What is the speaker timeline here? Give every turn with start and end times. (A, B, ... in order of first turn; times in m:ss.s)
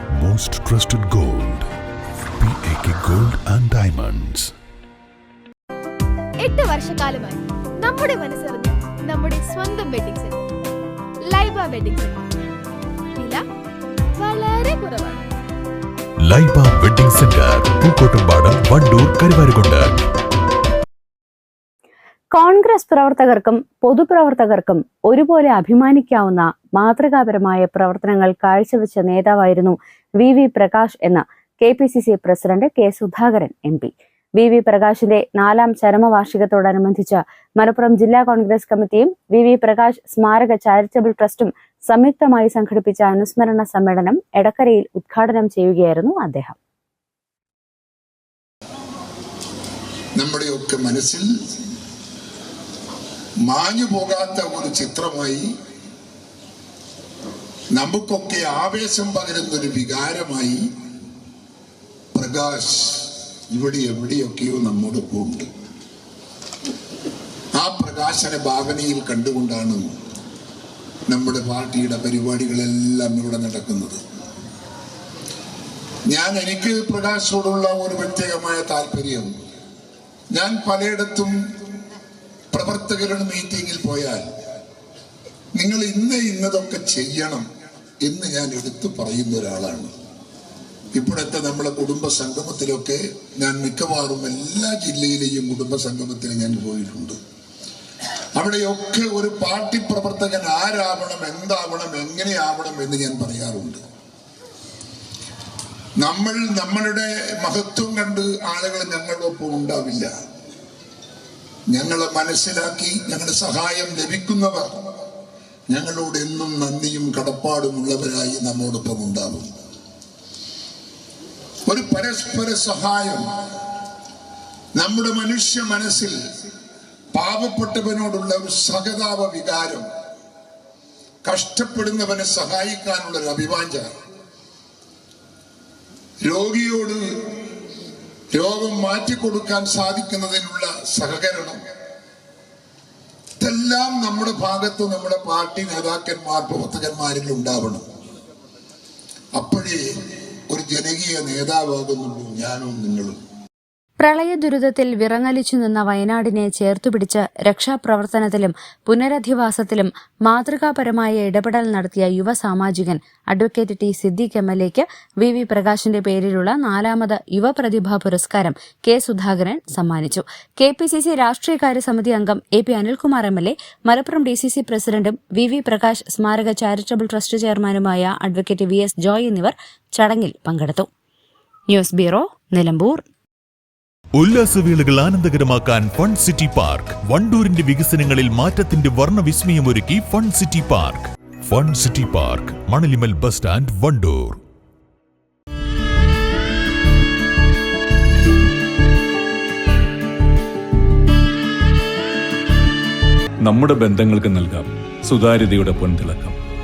0:00.2-0:01.6 A
0:02.4-0:04.5 A
0:06.4-0:10.4 B
0:11.3-0:12.3 B
0:13.2-0:13.4 B
0:14.2-0:15.2 B
0:16.2-0:20.0 A
0:22.3-0:46.6 C
0:50.2-0:51.3 D
0:53.5-0:55.4 D
0:57.7-1:00.6 D
1:02.1-1:05.5 D
1:07.5-1:10.0 D
1:11.1-1:14.0 D
1:16.1-1:19.3 D
1:20.3-1:21.4 D
1:22.5-1:24.3 D
1:25.6-1:27.4 D
1:28.0-1:29.9 D
1:30.9-1:37.2 D
1:38.4-1:43.8 D
1:46.0-1:50.1 D
1:51.7-1:54.7 D
1:55.7-1:59.5 D
2:01.7-2:03.2 D
2:04.8-2:06.2 D
2:07.1-2:09.8 D
2:11.2-2:13.9 D
2:16.2-2:17.0 D
2:18.3-2:21.6 D
2:23.4-2:27.8 D
2:29.4-2:29.8 D
2:30.5-2:33.2 D
2:34.0-3:00.9 C
3:01.7-3:03.0 C
3:04.2-3:14.4 A
3:23.4-3:26.4 E